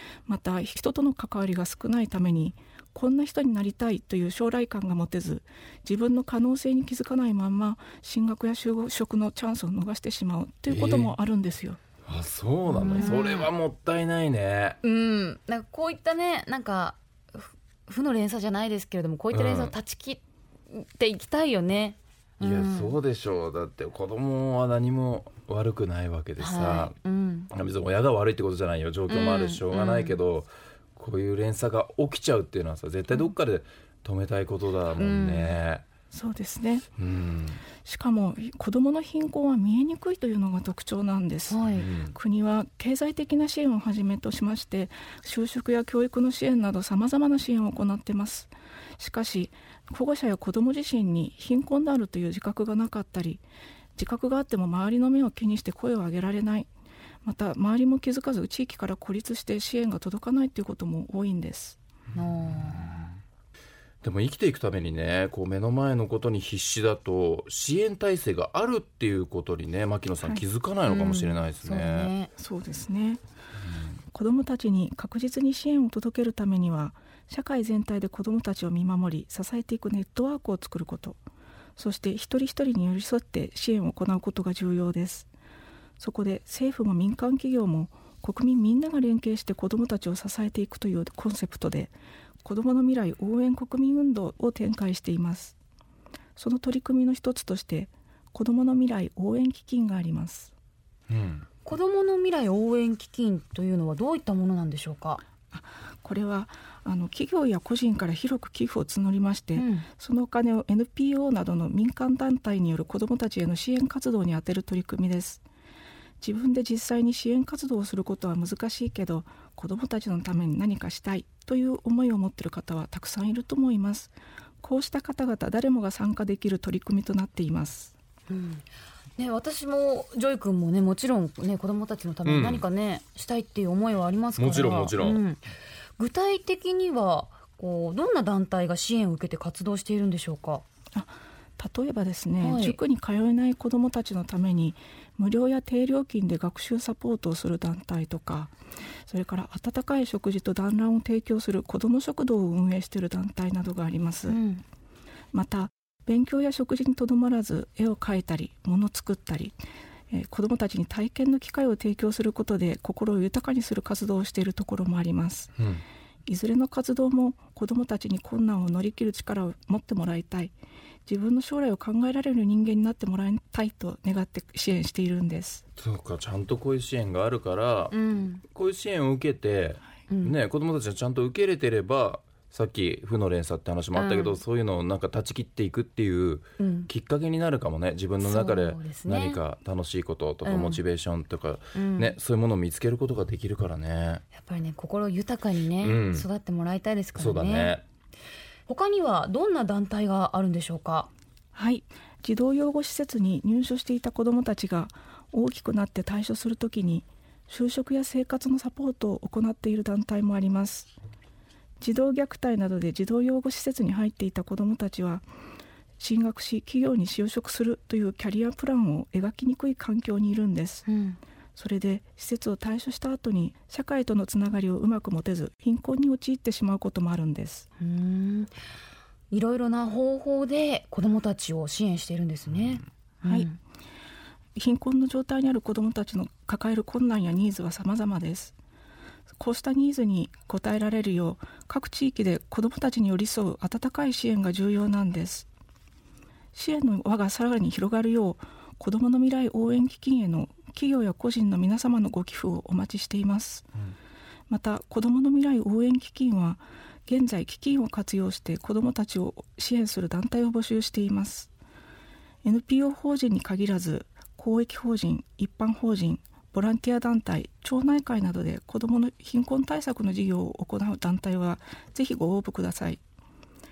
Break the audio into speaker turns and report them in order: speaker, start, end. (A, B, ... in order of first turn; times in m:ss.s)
0:00.3-0:11.8 A
0:10.7-0:11.2 B
0:12.0-0:14.8 B
0:12.7-0:13.5 C
0:14.8-0:23.0 C
0:19.3-0:19.8 B
0:22.4-0:27.0 B
0:26.4-0:27.5 C
0:27.5-0:35.9 B
0:29.1-0:30.2 C
0:35.0-0:35.6 C
0:36.1-0:36.9 A
0:37.0-0:37.7 B
0:37.8-0:53.4 A
0:41.5-0:41.9 C
0:41.8-0:42.2 B
0:54.0-0:56.7 A
0:57.2-1:01.8 A
1:02.1-1:03.1 C
1:04.0-1:12.1 B
1:10.8-1:12.3 C
1:12.4-1:13.2 A
1:14.1-1:21.2 A
1:21.8-1:25.3 A
1:26.0-1:35.6 A
1:36.4-1:40.5 A
1:41.1-1:41.5 B
1:41.6-1:45.2 C
1:45.5-1:55.4 A
1:49.6-1:49.9 C
1:56.2-2:08.0 A
2:08.3-2:08.7 C
2:09.2-2:15.4 C
2:12.2-2:12.6 B
2:14.4-2:15.2 B
2:16.0-2:20.6 C
2:21.0-2:28.5 A
2:22.4-2:22.8 C
2:29.1-2:34.4 A
2:34.3-2:34.6 C
2:35.3-2:39.6 A
2:40.1-2:45.5 A
2:45.6-2:45.8 B
2:46.3-2:50.5 A
2:51.1-2:55.6 A
2:55.8-2:57.9 B
2:57.9-2:58.4 C
2:58.5-3:14.2 B
3:00.1-3:00.4 C
3:04.0-3:04.4 C
3:06.6-3:06.9 C
3:08.2-3:09.4 C
3:10.4-3:10.8 C
3:11.7-3:12.2 C
3:14.3-3:17.8 C
3:15.8-3:16.3 B
3:17.2-3:17.8 B
3:18.7-3:21.1 C
3:21.5-3:30.9 A
3:31.8-3:35.3 A
3:36.0-3:40.8 A
3:40.9-3:41.2 C
3:41.6-3:47.7 A
3:47.8-3:48.5 C
3:49.3-3:53.6 C
3:53.2-3:53.5 A
3:54.6-3:58.6 A
3:59.4-4:05.5 A
4:06.5-4:13.7 A
4:14.5-4:21.5 A
4:22.4-4:33.0 A